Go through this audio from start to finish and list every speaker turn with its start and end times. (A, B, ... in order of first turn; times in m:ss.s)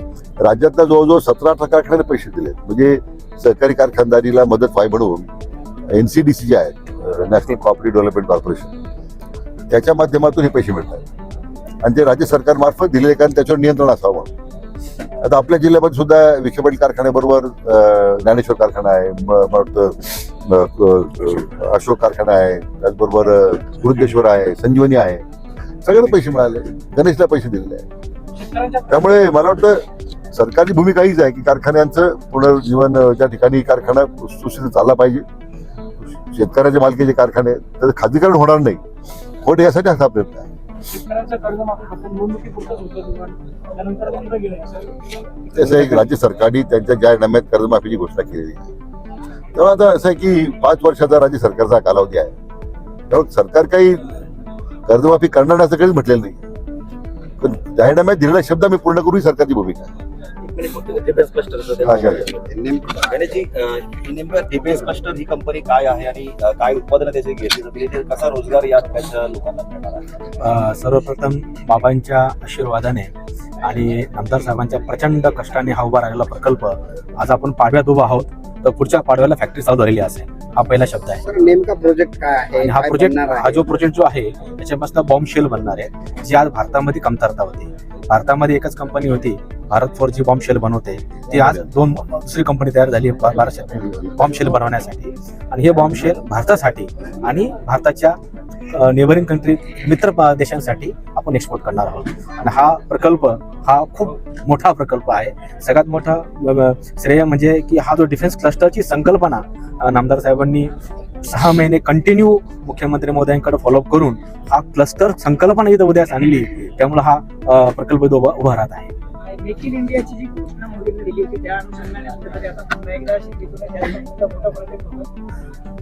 0:00.4-0:05.3 A
0:05.9-0:08.7 A
0:09.7-0:11.0 A
0:11.8-0:14.3 A
0:15.2-0:25.2 A
0:25.8-0:27.8 A
0:28.4-0:29.0 B
0:28.9-0:35.2 A
0:36.1-0:38.8 A
0:39.4-0:40.5 A
0:40.9-0:45.0 B
0:45.5-0:48.7 A
0:49.6-0:52.3 A
0:53.1-0:54.1 A
0:54.9-0:56.4 A
0:57.4-0:59.9 A
1:00.4-1:02.3 C
1:01.8-1:02.3 A
1:02.0-1:03.4 D
1:03.1-1:10.0 C
1:10.4-1:13.1 E
1:13.6-1:21.2 E
1:21.2-1:23.7 D
1:22.6-1:38.2 E
1:33.7-1:34.1 A
1:38.7-1:50.7 E
1:51.3-1:58.9 E
1:59.3-2:05.1 B